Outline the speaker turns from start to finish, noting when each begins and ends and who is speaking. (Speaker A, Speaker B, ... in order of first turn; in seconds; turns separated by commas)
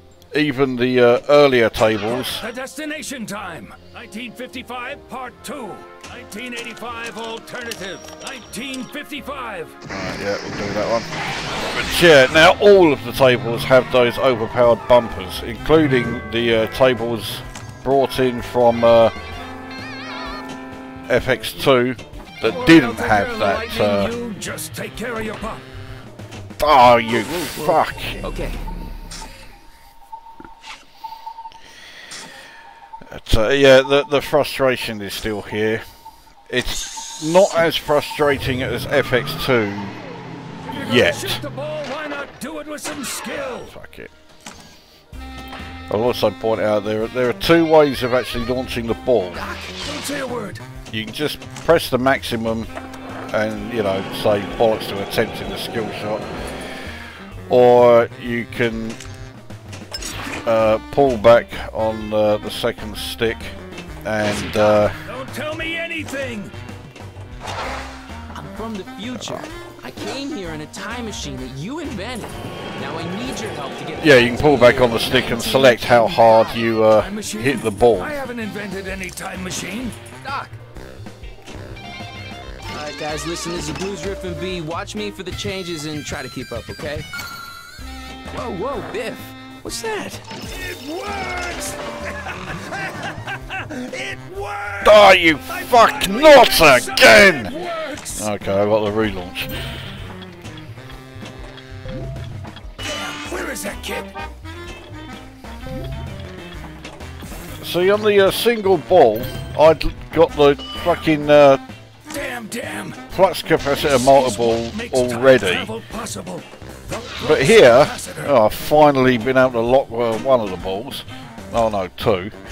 Speaker A: 0.3-2.5, Speaker B: 2.1-9.8, Speaker A: 9.9-19.1, Speaker A: 21.1-24.1, Speaker B: 22.4-25.6, Speaker A: 26.6-28.2, Speaker C: 27.2-28.6, Speaker A: 33.1-35.9, Speaker A: 36.5-40.0, Speaker B: 40.6-43.7, Speaker A: 40.8-41.4, Speaker A: 43.4-44.1, Speaker A: 45.9-49.4, Speaker C: 49.3-49.8, Speaker B: 49.7-50.6, Speaker A: 50.9-52.7, Speaker A: 53.3-56.3, Speaker A: 57.5-59.0, Speaker A: 60.5-65.0, Speaker C: 64.3-64.9, Speaker B: 65.0-66.5, Speaker C: 68.3-76.7, Speaker A: 69.1-69.5, Speaker A: 74.0-78.2, Speaker B: 77.0-80.0, Speaker C: 80.2-80.6, Speaker C: 82.7-87.1, Speaker C: 88.3-90.2, Speaker B: 90.5-98.3, Speaker A: 94.8-97.5, Speaker A: 98.2-99.6, Speaker B: 102.8-104.1, Speaker A: 107.6-111.6, Speaker B: 112.1-113.0, Speaker A: 113.1-115.7, Speaker B: 113.7-118.3, Speaker A: 117.2-122.3